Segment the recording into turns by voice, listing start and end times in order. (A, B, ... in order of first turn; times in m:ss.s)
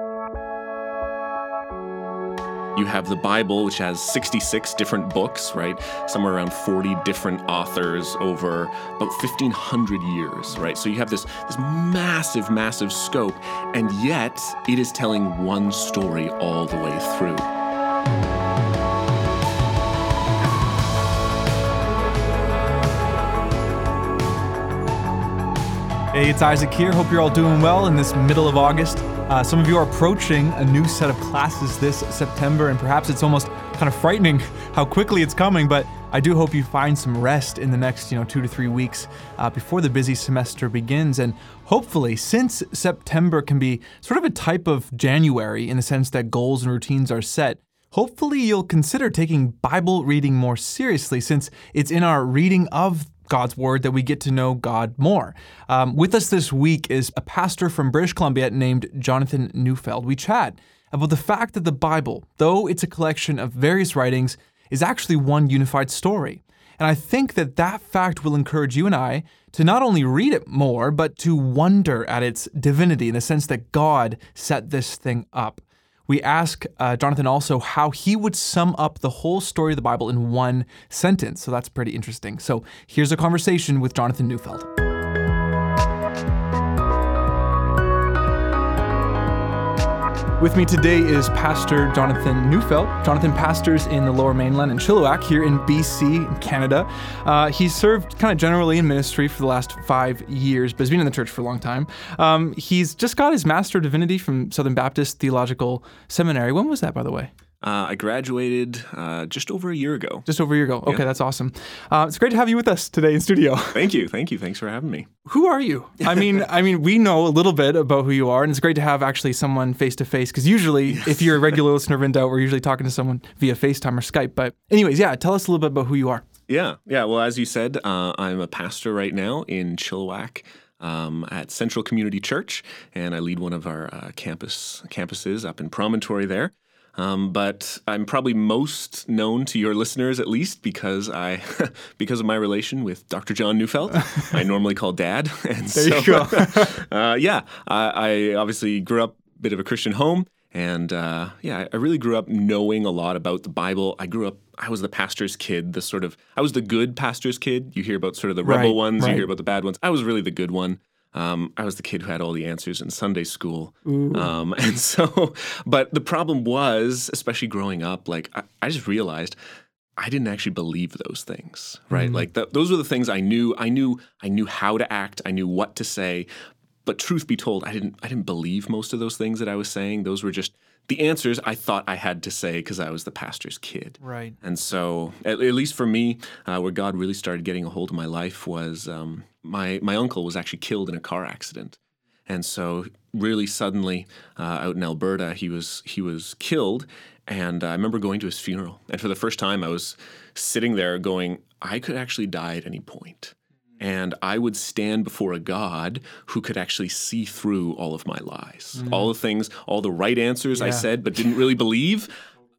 0:02.7-0:17.5 A
0:26.1-1:24.7 B
1:30.4-1:47.3 B
1:47.6-1:50.3 A
1:50.2-1:53.9 B
1:53.7-1:55.1 A
1:55.2-2:06.2 B
1:56.0-1:56.3 A
2:00.9-2:01.4 A
2:06.5-2:49.4 A
2:24.0-2:24.3 B
2:25.7-2:26.8 B
2:38.4-2:39.3 B
2:43.8-2:44.3 B
2:50.0-2:56.3 A
2:51.9-2:52.3 B
2:56.8-3:32.1 A
3:04.0-3:04.4 B
3:28.8-3:29.1 B
3:30.5-3:30.8 B